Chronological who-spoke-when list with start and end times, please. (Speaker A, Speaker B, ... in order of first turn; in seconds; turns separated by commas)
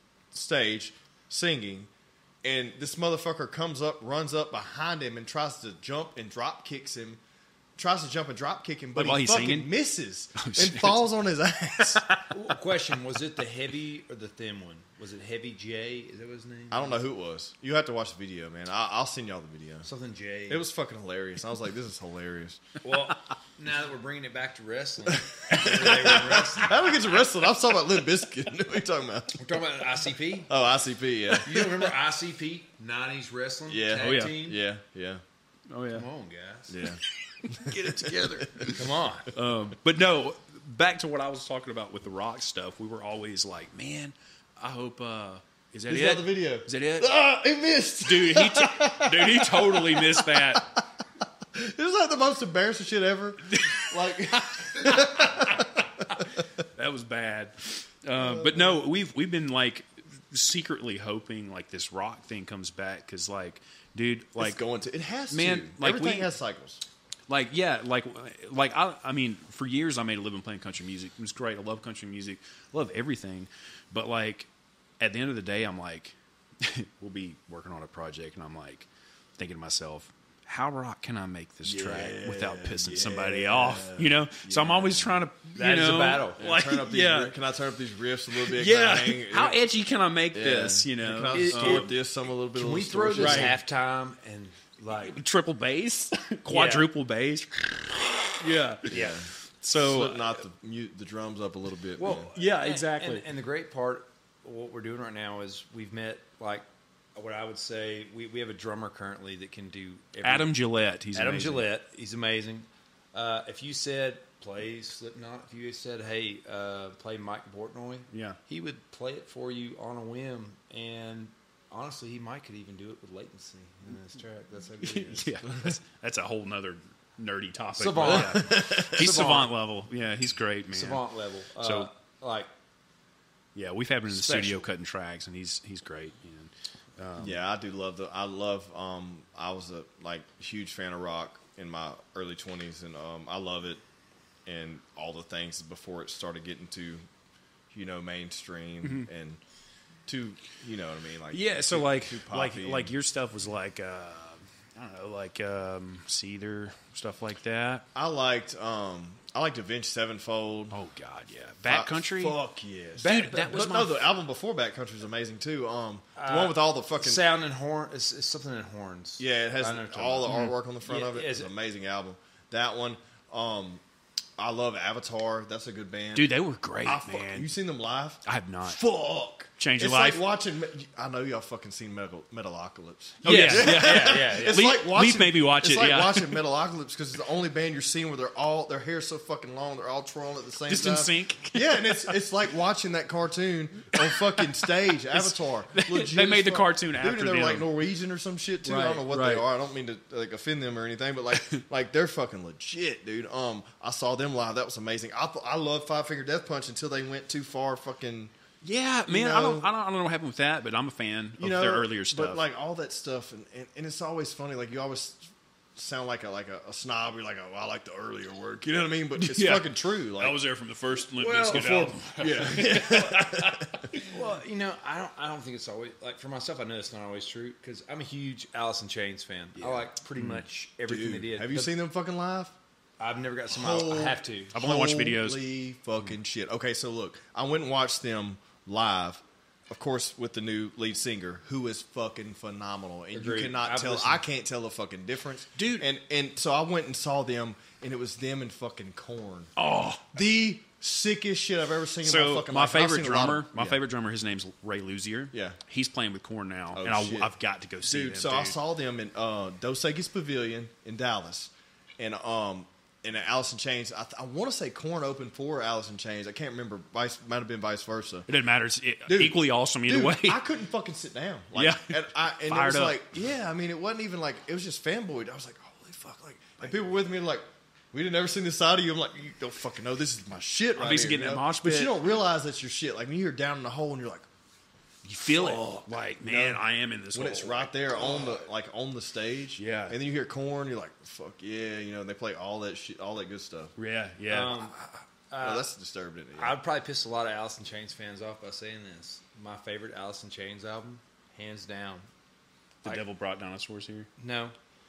Speaker A: 0.3-1.9, Speaker A: 2.4-7.2, Speaker A: 7.8-12.0, Speaker B: 8.9-9.7, Speaker B: 10.4-11.1, Speaker B: 11.8-12.2, Speaker C: 12.3-17.0, Speaker A: 16.7-19.9, Speaker C: 19.9-20.6, Speaker A: 20.5-22.6, Speaker C: 22.8-27.1, Speaker A: 25.1-29.4, Speaker C: 29.4-30.5, Speaker A: 30.5-31.9, Speaker C: 31.4-34.6, Speaker A: 33.7-35.2, Speaker B: 34.0-34.5, Speaker B: 35.7-36.1, Speaker C: 35.9-36.8, Speaker A: 36.7-38.8, Speaker B: 37.4-47.1, Speaker C: 38.7-39.3, Speaker A: 45.9-50.7, Speaker B: 48.0-50.7, Speaker A: 51.5-56.4, Speaker B: 53.5-64.6, Speaker A: 58.2-58.9, Speaker A: 64.4-66.8, Speaker B: 65.3-66.3, Speaker B: 67.3-74.5, Speaker B: 75.0-87.3, Speaker A: 81.7-85.2, Speaker C: 85.5-86.4, Speaker A: 86.4-89.6, Speaker B: 88.3-91.9, Speaker A: 90.3-93.6, Speaker C: 91.3-92.0, Speaker C: 92.5-95.2, Speaker B: 93.2-93.6, Speaker B: 94.9-100.4, Speaker C: 96.5-96.9, Speaker A: 98.9-102.3, Speaker C: 102.0-110.5, Speaker B: 102.0-103.3, Speaker B: 110.2-111.7, Speaker C: 111.2-125.4, Speaker B: 118.1-118.4, Speaker B: 124.8-131.0, Speaker C: 127.8-129.6, Speaker A: 128.0-129.1, Speaker C: 130.7-132.5, Speaker B: 131.6-131.9, Speaker B: 133.6-137.4, Speaker C: 134.1-134.7, Speaker A: 137.2-143.8, Speaker A: 144.5-147.0, Speaker A: 147.7-149.4, Speaker B: 148.8-149.1, Speaker A: 150.1-152.9, Speaker B: 151.3-157.9, Speaker A: 157.9-160.8, Speaker B: 160.7-162.4, Speaker A: 161.7-167.2, Speaker B: 163.0-164.0, Speaker C: 163.0-163.7, Speaker C: 166.2-171.5, Speaker A: 169.2-173.8, Speaker B: 170.3-170.6, Speaker A: 174.4-208.3, Speaker B: 176.2-177.5, Speaker B: 178.2-178.8, Speaker B: 179.6-180.2, Speaker C: 183.2-184.6, Speaker B: 183.2-186.4, Speaker B: 190.7-192.2, Speaker B: 193.9-197.7, Speaker B: 198.6-199.5, Speaker B: 201.3-201.6, Speaker B: 208.6-212.4, Speaker A: 209.1-209.7, Speaker A: 211.4-220.4, Speaker B: 219.2-224.3, Speaker C: 221.2-221.9, Speaker A: 221.5-224.0, Speaker C: 224.1-231.7, Speaker B: 229.6-230.4, Speaker A: 230.9-232.5, Speaker C: 233.0-234.6, Speaker A: 233.5-249.5, Speaker B: 234.5-235.4, Speaker C: 243.1-244.2, Speaker B: 245.6-245.9, Speaker B: 249.6-250.2, Speaker A: 250.1-253.8, Speaker B: 252.0-258.6, Speaker A: 255.3-255.6, Speaker A: 256.8-268.3, Speaker B: 268.3-270.4, Speaker A: 269.1-284.3, Speaker B: 271.5-273.2, Speaker B: 280.8-282.1, Speaker B: 285.0-287.8, Speaker A: 285.3-286.6, Speaker A: 287.1-293.7, Speaker C: 288.0-288.3, Speaker B: 289.6-290.0, Speaker B: 293.8-294.6, Speaker C: 294.3-294.8, Speaker A: 294.5-296.6, Speaker C: 295.3-295.7, Speaker C: 296.4-302.1, Speaker B: 302.8-304.1, Speaker C: 304.2-304.5